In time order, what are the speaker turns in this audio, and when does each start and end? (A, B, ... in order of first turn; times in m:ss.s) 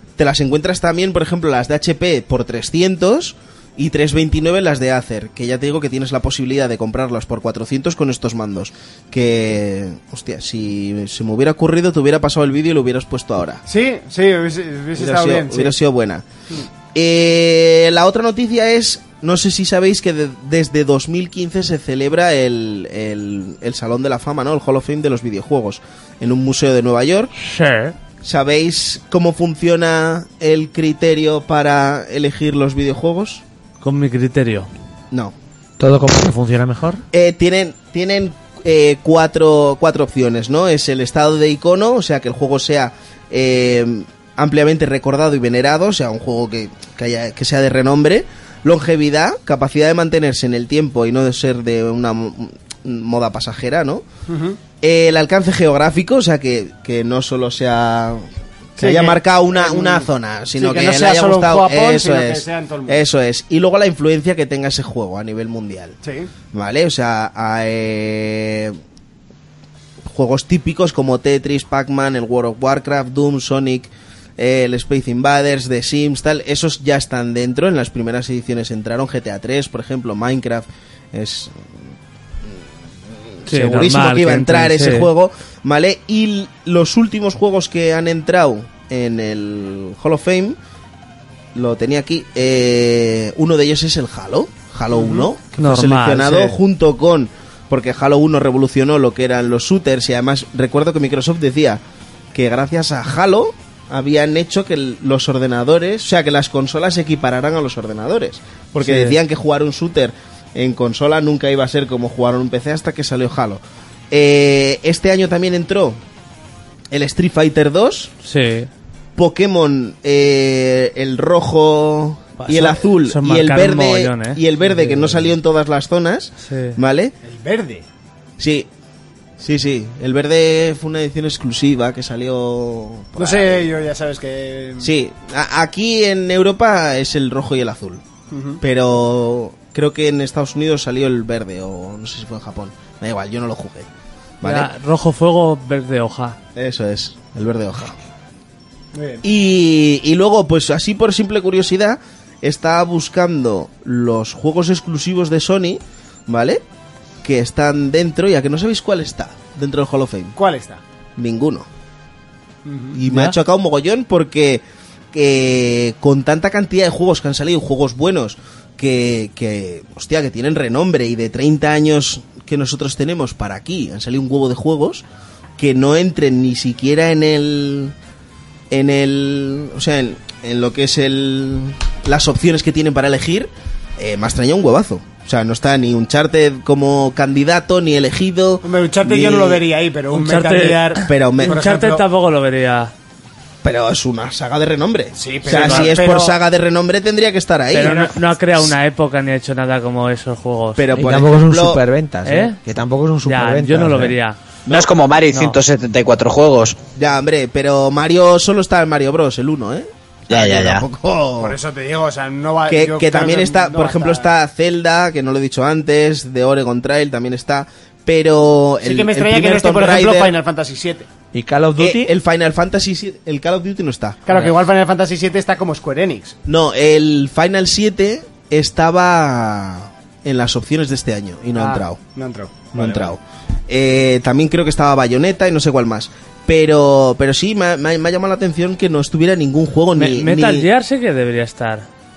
0:00.2-0:13.6 A
0:13.7-0:15.8 B
0:15.0-0:16.2 A
0:16.9-0:27.3 A
0:27.4-0:28.0 C
0:28.2-0:33.4 A
0:33.8-0:34.7 C
0:35.8-0:37.0 D
0:37.1-0:54.0 A
0:54.3-0:54.6 B
0:54.8-1:06.0 A
0:58.8-1:03.0 B
1:06.0-1:06.3 B
1:06.5-1:08.8 A
1:10.1-1:22.0 A
1:23.2-1:30.6 A
1:23.5-1:25.1 C
1:31.6-1:41.8 A
1:34.9-1:35.3 B
1:35.6-1:36.6 C
1:42.3-1:56.0 A
1:48.8-1:49.1 C
1:56.9-1:58.1 A
1:58.2-1:58.7 C
1:59.2-2:07.2 A
2:02.4-2:04.4 C
2:06.5-2:06.8 C
2:07.2-2:07.8 B
2:08.4-2:08.7 A
2:09.4-2:13.7 A
2:13.2-2:14.9 B
2:14.8-2:18.0 A
2:18.3-2:18.6 B
2:18.6-2:23.9 A
2:24.4-2:24.7 A
2:24.4-2:26.4 C
2:26.6-2:28.0 A
2:28.9-2:29.2 B
2:29.2-2:36.6 A
2:37.2-2:40.4 A
2:40.4-2:40.8 B
2:41.2-2:41.7 A
2:42.6-2:43.0 B
2:42.9-2:55.0 A
2:55.6-2:58.0 A
2:58.7-3:09.6 A
3:08.6-3:12.0 B
3:10.1-3:12.9 C
3:11.1-3:11.6 A
3:13.6-3:18.0 A
3:15.2-3:16.4 B
3:15.5-3:15.9 C
3:17.7-3:20.9 C
3:17.8-3:18.1 B
3:20.8-3:21.8 A
3:20.9-3:24.2 D
3:22.3-3:22.6 C
3:23.2-3:24.4 C
3:24.7-3:26.8 E
3:27.0-3:31.6 A
3:30.3-3:30.8 E
3:31.4-3:34.3 B
3:32.7-3:40.4 A
3:38.8-3:41.1 B
3:41.3-3:42.1 D
3:41.8-3:44.2 A
3:44.3-3:46.4 B
3:46.5-3:52.0 A
3:51.6-3:53.1 B
3:52.7-4:00.7 A
4:00.0-4:01.9 C